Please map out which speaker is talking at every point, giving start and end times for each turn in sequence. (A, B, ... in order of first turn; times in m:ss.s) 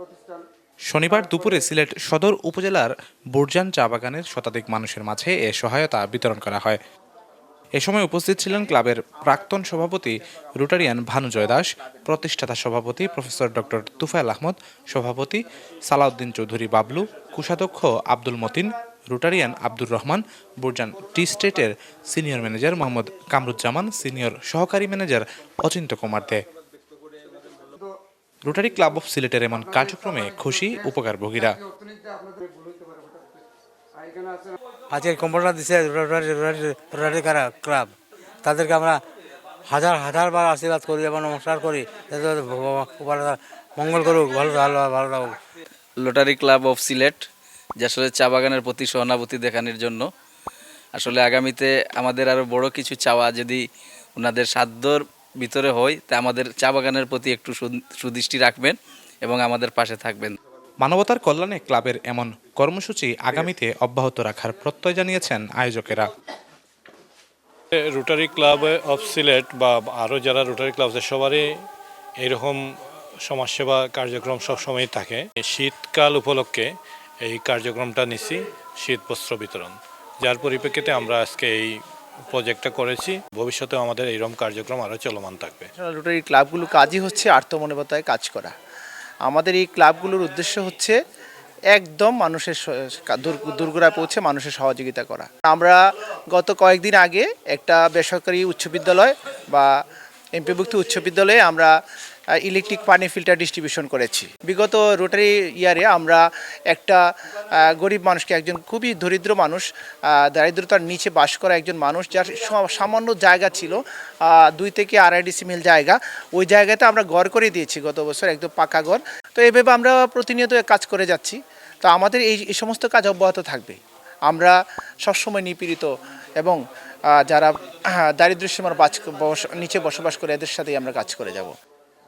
0:00.9-0:06.8 A
0:07.8-0:26.4 A
0:28.4-0:31.6 A
0:34.9-0:39.0 B
0:39.7-0:45.4 B
0:46.0-0:47.2 C
0:47.8-0:50.1 C
0:51.0-0:53.6 C
0:54.2-1:00.4 C
1:00.8-1:06.1 A
1:07.7-1:11.6 D
1:12.2-1:12.6 D
1:13.2-1:25.7 D
1:25.8-1:28.5 E
1:29.2-1:30.9 E
1:31.7-1:35.8 E
1:36.3-1:39.7 E
1:40.4-1:41.7 E
1:42.4-1:47.0 E
1:47.6-1:49.6 E
1:50.1-2:06.6 E
2:07.2-2:11.5 E